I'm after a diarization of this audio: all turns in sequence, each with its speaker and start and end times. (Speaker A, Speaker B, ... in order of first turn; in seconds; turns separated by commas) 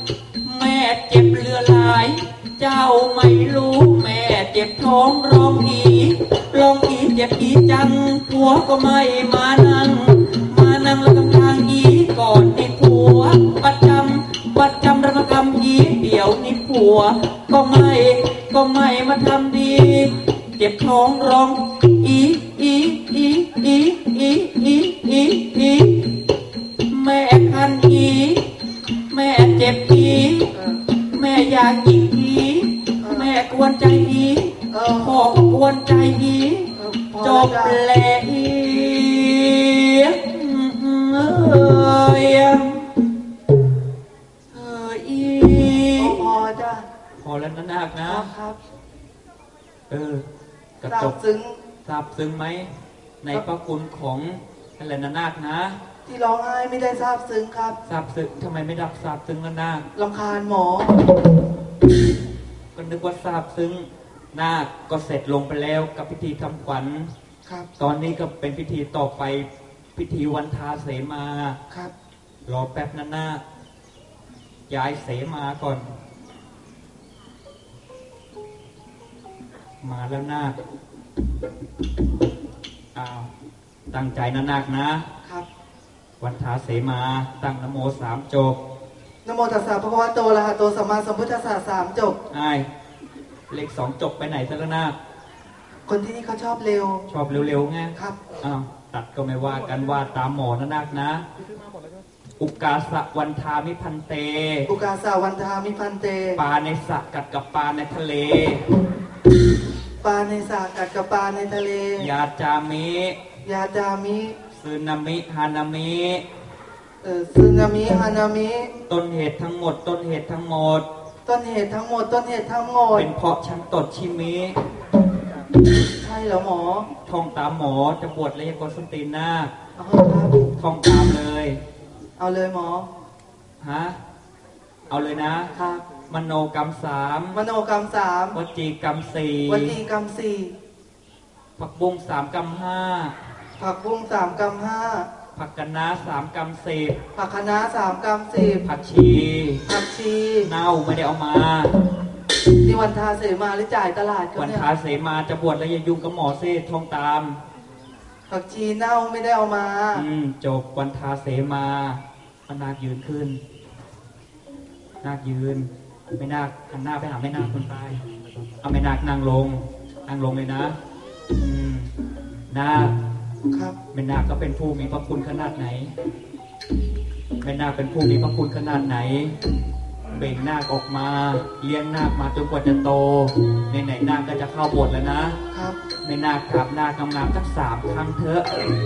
Speaker A: 0.4-26.2, Speaker A: 26.9-28.4, Speaker A: 29.1-30.5, Speaker B: 30.5-30.8, Speaker A: 31.1-42.9, Speaker B: 33.0-33.3, Speaker B: 34.7-35.3, Speaker B: 36.8-37.8, Speaker A: 44.5-46.3, Speaker B: 46.0-46.9, Speaker A: 47.2-48.3, Speaker B: 48.0-48.6, Speaker A: 49.9-50.2, Speaker A: 50.8-51.1, Speaker B: 50.9-51.6, Speaker A: 51.8-55.8, Speaker B: 56.0-57.8, Speaker A: 57.9-59.9, Speaker B: 59.9-61.0, Speaker A: 62.7-67.1, Speaker A: 67.8-71.6, Speaker A: 72.5-73.4, Speaker A: 74.7-75.9, Speaker A: 79.8-80.6, Speaker A: 82.9-83.3, Speaker A: 83.9-85.1, Speaker A: 86.2-88.6, Speaker B: 89.2-92.2, Speaker A: 92.3-92.7, Speaker A: 93.5-94.9, Speaker B: 95.9-97.0, Speaker A: 97.1-101.2, Speaker A: 102.4-104.7, Speaker B: 104.7-106.4, Speaker A: 106.3-108.6, Speaker B: 110.0-112.1, Speaker A: 112.0-113.2, Speaker B: 113.4-114.4, Speaker A: 114.5-116.2, Speaker B: 117.0-118.7, Speaker A: 118.9-120.8, Speaker B: 121.2-123.1, Speaker A: 122.9-124.6, Speaker B: 126.0-126.9, Speaker A: 127.0-129.5, Speaker B: 129.8-130.5, Speaker A: 130.6-131.6, Speaker B: 132.2-132.9, Speaker A: 133.6-134.0, Speaker A: 134.9-135.5, Speaker B: 135.5-135.8, Speaker A: 136.1-137.4, Speaker B: 137.3-138.4, Speaker A: 138.3-139.8, Speaker B: 139.5-140.5, Speaker A: 141.6-143.1, Speaker B: 143.6-145.1, Speaker A: 145.3-147.0, Speaker B: 147.1-148.6, Speaker A: 148.6-149.6, Speaker B: 149.7-150.5, Speaker A: 150.4-151.7, Speaker B: 152.6-154.7, Speaker A: 154.3-157.4, Speaker B: 158.3-160.1, Speaker A: 159.9-163.4, Speaker A: 165.0-168.0, Speaker A: 168.6-170.8, Speaker A: 171.4-171.9, Speaker A: 172.5-172.9, Speaker A: 173.9-175.9, Speaker A: 177.4-179.3, Speaker A: 180.1-185.4, Speaker B: 185.5-185.8, Speaker A: 186.0-188.5